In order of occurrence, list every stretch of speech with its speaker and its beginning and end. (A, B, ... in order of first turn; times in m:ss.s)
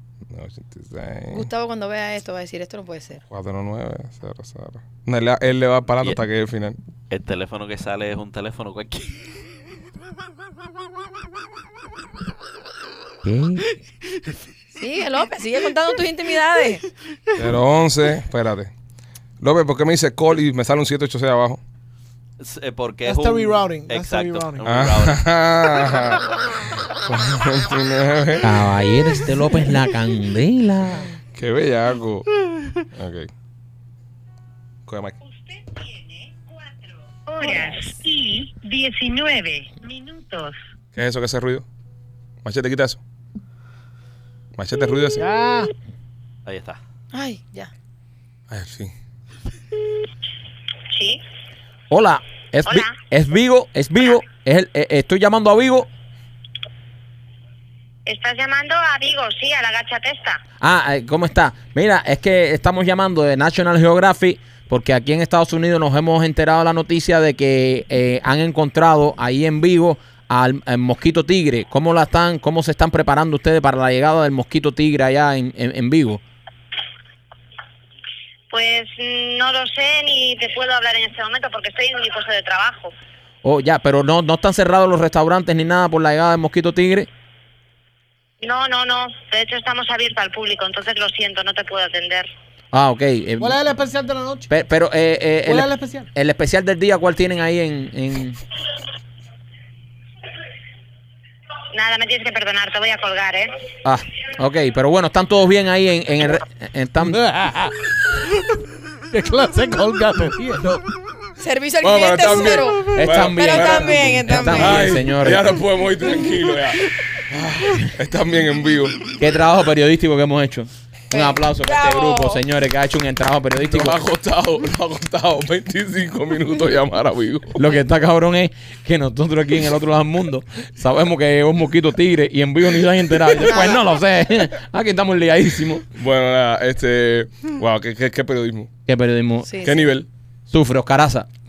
0:00.3-0:01.5 A
0:01.3-0:03.2 B
0:03.3-0:06.8 A
0:07.1-0:09.4 C
0:13.2-0:13.8 D
0:14.8-0:16.9 B
0:17.3-0:18.7 A
0:19.4-0:21.6 A
0:22.4-0:25.2 C
0:23.0-0:24.7 E
0:24.6-0:26.3 A
0:26.9-0:28.5 A
0:28.4-0:31.1 D
0:31.4-0:32.3 A
0:32.9-0:33.3 A
0:34.9-0:35.2 A
0:35.2-0:40.6 F
0:37.4-0:38.0 B
0:41.0-0:41.7 A
0:42.4-0:43.0 A
0:44.6-0:45.2 A
0:45.2-0:45.7 E
0:46.5-0:46.8 C
0:47.1-0:47.7 B
0:48.5-0:48.9 A
0:50.9-0:51.2 G
0:51.9-0:55.9 D
0:52.7-0:52.9 G
0:58.1-1:00.4 G
1:00.6-1:16.2 D
1:18.5-1:22.9 G
1:23.4-1:27.1 D
1:28.4-1:32.3 G
1:32.7-1:33.6 D
1:33.4-1:34.5 E
1:34.5-1:38.4 D
1:35.4-1:36.1 E
1:41.7-1:43.6 G
1:43.8-1:47.2 D
1:47.0-1:48.6 E
1:49.1-1:50.9 E
1:51.4-1:55.0 B
1:51.8-1:59.0 A
1:52.9-1:55.6 D
1:53.8-1:54.3 E
1:59.2-2:04.0 D
2:01.1-2:02.4 B
2:03.6-2:07.6 A
2:07.6-2:15.9 D
2:13.4-2:13.9 B
2:15.9-2:18.7 A
2:18.9-2:19.5 D
2:19.4-2:19.9 B
2:19.6-2:20.1 A
2:20.5-2:21.3 D